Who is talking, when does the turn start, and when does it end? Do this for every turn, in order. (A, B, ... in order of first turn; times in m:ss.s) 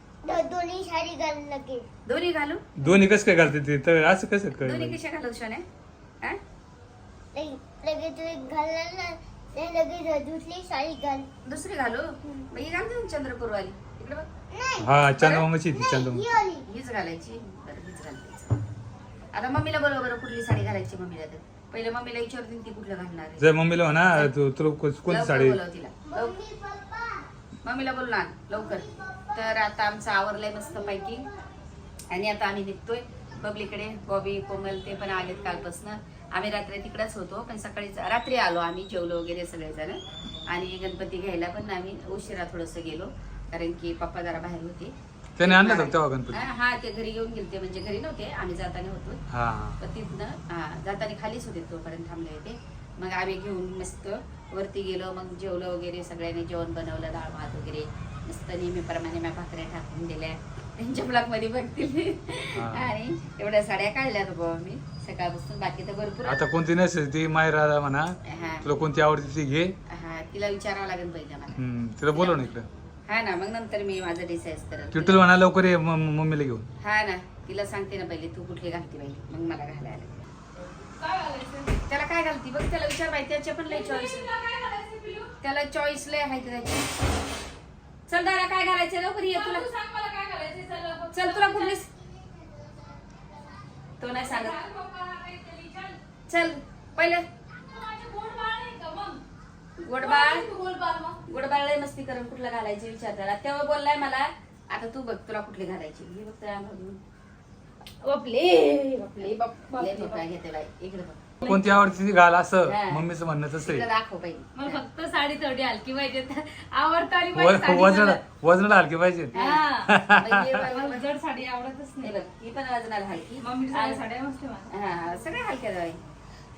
0:00.2-0:01.9 A
0:02.1-0:02.6 B
0:02.8-0:05.0 C
0:04.6-0:05.6 B
0:07.3-0:11.3 A
0:11.5-0:14.2 B
0:14.5-0:14.9 A
0:14.8-0:16.3 C
0:15.2-0:15.5 B
0:15.7-0:16.6 A
0:16.7-0:18.6 B
0:19.3-0:23.5 B
0:23.4-0:25.6 C
0:25.1-0:26.4 B
0:26.1-0:27.3 A
0:27.6-0:31.3 B
0:28.5-0:29.5 A
0:30.6-0:31.3 A
0:32.1-0:49.2 B
0:45.4-0:46.4 C
0:49.3-0:49.8 C
0:49.8-1:06.4 B
1:02.6-1:02.9 C
1:06.2-1:08.1 C
1:08.3-1:08.7 B
1:08.6-1:09.8 C
1:09.9-1:11.6 B
1:11.6-1:12.7 C
1:12.1-1:12.5 B
1:13.1-1:15.3 B
1:14.9-1:16.7 C
1:16.8-1:20.2 B
1:20.8-1:21.7 D
1:21.9-1:24.3 B
1:23.7-1:25.3 D
1:25.4-1:26.9 B
1:28.1-1:29.7 B
1:29.3-1:31.8 D
1:31.1-1:31.9 B
1:32.0-1:33.0 A
1:34.0-1:34.6 B
1:34.1-1:36.0 D
1:36.3-1:37.2 B
1:37.6-1:39.2 D
1:39.8-1:40.5 B
1:40.0-1:41.2 D
1:41.3-1:47.0 B
1:48.0-1:50.2 D
1:49.2-1:51.2 B
1:51.4-1:51.7 D
1:51.4-1:53.9 C
1:52.7-1:53.0 B
1:53.6-1:54.8 B
1:54.6-1:58.2 D
1:57.3-1:59.3 C
1:59.3-1:59.9 D
1:59.3-2:01.0 B
1:59.9-2:00.4 C
2:00.7-2:02.1 D
2:02.0-2:04.0 B
2:03.4-2:04.7 D
2:04.7-2:06.0 B